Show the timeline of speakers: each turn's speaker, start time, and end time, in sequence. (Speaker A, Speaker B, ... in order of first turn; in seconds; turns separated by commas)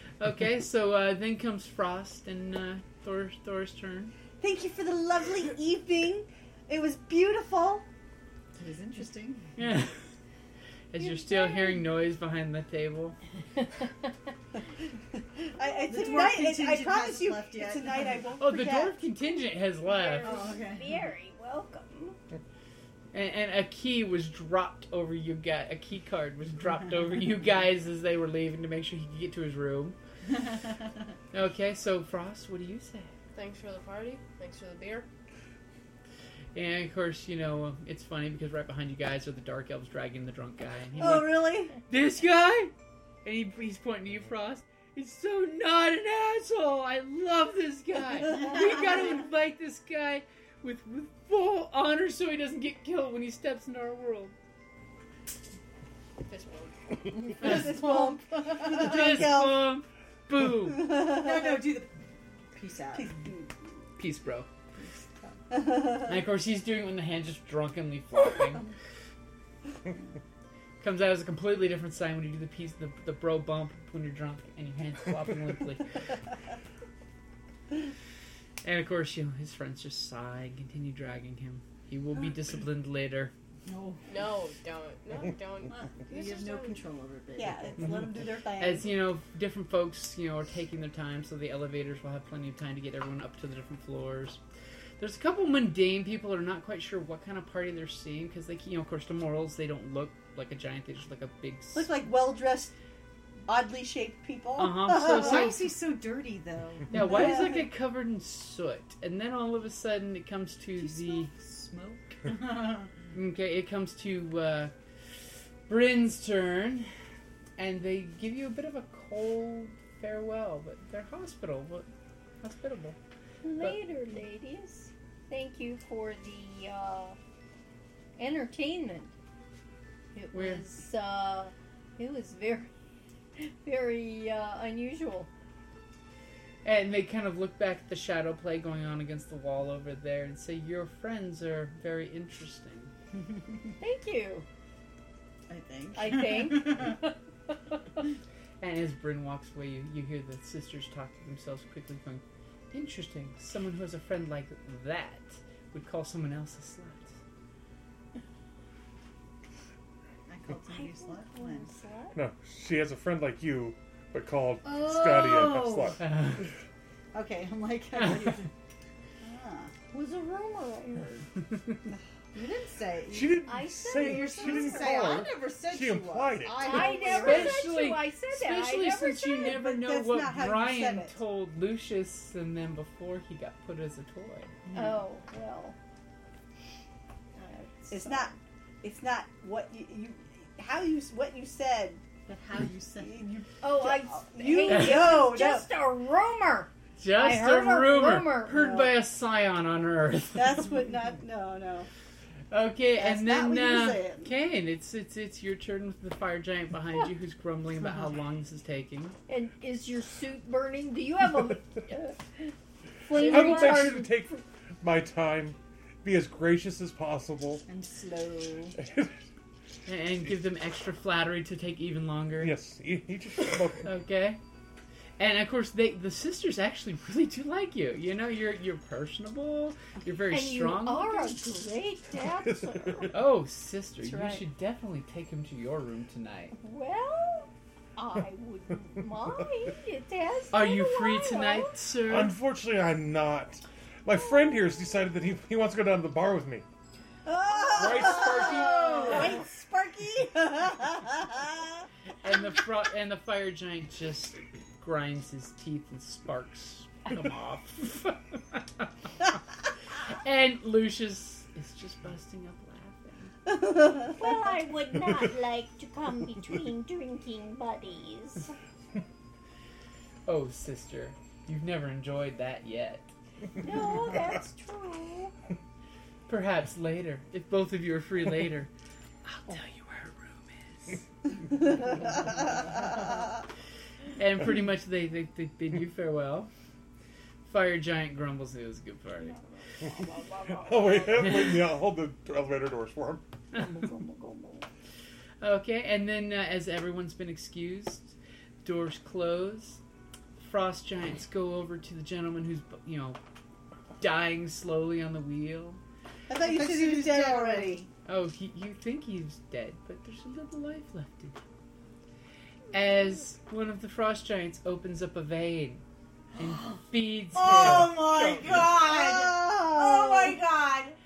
Speaker A: 0.2-4.1, Speaker B: 4.4-7.9, Speaker C: 8.5-9.5, Speaker A: 9.6-10.0, Speaker A: 10.9-13.2, Speaker D: 11.0-11.8, Speaker B: 15.5-19.0, Speaker C: 15.9-18.2, Speaker A: 18.4-20.3, Speaker D: 19.4-22.2, Speaker C: 20.2-21.0, Speaker A: 23.1-29.9, Speaker A: 31.3-33.1, Speaker E: 33.3-35.1, Speaker A: 36.5-42.7, Speaker B: 41.0-41.7, Speaker A: 43.2-54.3, Speaker E: 56.2-57.4, Speaker B: 57.4-59.7, Speaker A: 57.4-58.0, Speaker C: 57.4-59.2, Speaker A: 58.5-61.0, Speaker B: 60.6-61.7, Speaker C: 61.0-61.9, Speaker C: 62.5-63.1, Speaker B: 62.9-63.5, Speaker A: 64.0-64.5, Speaker C: 64.7-65.4, Speaker B: 65.5-66.2, Speaker A: 66.0-68.7, Speaker A: 70.8-75.9, Speaker A: 78.6-83.3, Speaker C: 83.7-84.0, Speaker E: 84.1-86.8, Speaker C: 85.7-88.0, Speaker B: 87.3-88.9, Speaker A: 88.6-94.4, Speaker A: 95.0-102.0, Speaker B: 101.7-102.7, Speaker B: 103.5-105.5, Speaker A: 104.6-105.6, Speaker C: 105.0-107.2, Speaker A: 106.9-111.3, Speaker B: 106.9-107.6, Speaker C: 110.8-112.9, Speaker A: 113.1-114.7, Speaker A: 115.7-116.9, Speaker A: 117.6-121.9, Speaker A: 122.4-123.0, Speaker D: 123.4-127.2, Speaker D: 128.2-129.1, Speaker D: 130.1-132.7, Speaker A: 130.3-130.6, Speaker D: 133.4-135.3, Speaker A: 136.6-142.9, Speaker D: 143.8-144.4, Speaker C: 145.5-146.9, Speaker D: 145.9-147.1, Speaker A: 148.6-157.1, Speaker C: 160.3-161.7, Speaker D: 160.7-162.2, Speaker F: 162.1-166.0, Speaker C: 164.8-166.0, Speaker A: 166.0-166.4, Speaker C: 167.1-168.5, Speaker C: 169.2-169.7, Speaker D: 169.9-171.2, Speaker C: 171.9-177.7, Speaker F: 173.1-177.0, Speaker D: 173.4-175.2, Speaker D: 176.6-179.6, Speaker A: 177.1-184.5, Speaker B: 179.4-181.2, Speaker C: 184.7-185.0, Speaker D: 184.7-185.8, Speaker D: 187.4-188.3, Speaker B: 187.9-192.0, Speaker C: 192.2-193.4, Speaker B: 193.0-195.7, Speaker D: 193.6-198.9, Speaker A: 194.7-195.0, Speaker A: 197.0-200.7, Speaker B: 198.5-198.9, Speaker B: 200.3-201.9, Speaker A: 202.5-209.2, Speaker B: 202.9-204.3, Speaker D: 209.3-212.5, Speaker D: 213.0-214.4, Speaker F: 213.1-217.6, Speaker C: 217.7-218.7, Speaker F: 218.8-219.1, Speaker A: 219.9-222.6, Speaker F: 222.4-223.9, Speaker A: 223.8-224.4, Speaker A: 225.2-231.4, Speaker D: 230.3-233.2, Speaker F: 232.4-233.1, Speaker A: 233.1-236.5, Speaker B: 234.0-234.4, Speaker D: 236.5-241.7, Speaker A: 240.5-242.4, Speaker F: 242.0-246.6, Speaker D: 244.1-244.6, Speaker B: 247.2-251.8, Speaker F: 247.7-248.8, Speaker C: 247.9-249.2, Speaker D: 247.9-249.4, Speaker A: 252.2-258.9, Speaker A: 259.9-263.3, Speaker B: 263.5-264.1, Speaker D: 264.1-268.5, Speaker A: 270.3-273.1, Speaker D: 273.6-275.3, Speaker A: 276.3-278.7, Speaker A: 279.2-281.0, Speaker A: 284.2-286.5, Speaker A: 287.4-289.4, Speaker D: 289.3-291.3, Speaker F: 290.5-293.2, Speaker D: 293.6-294.6, Speaker A: 295.4-299.8, Speaker A: 300.4-303.2, Speaker A: 304.0-305.8, Speaker B: 306.3-307.9, Speaker C: 306.3-307.9, Speaker A: 308.1-311.4, Speaker A: 312.7-315.8, Speaker A: 316.4-318.0, Speaker C: 317.3-320.4, Speaker B: 317.4-320.9, Speaker F: 317.7-318.8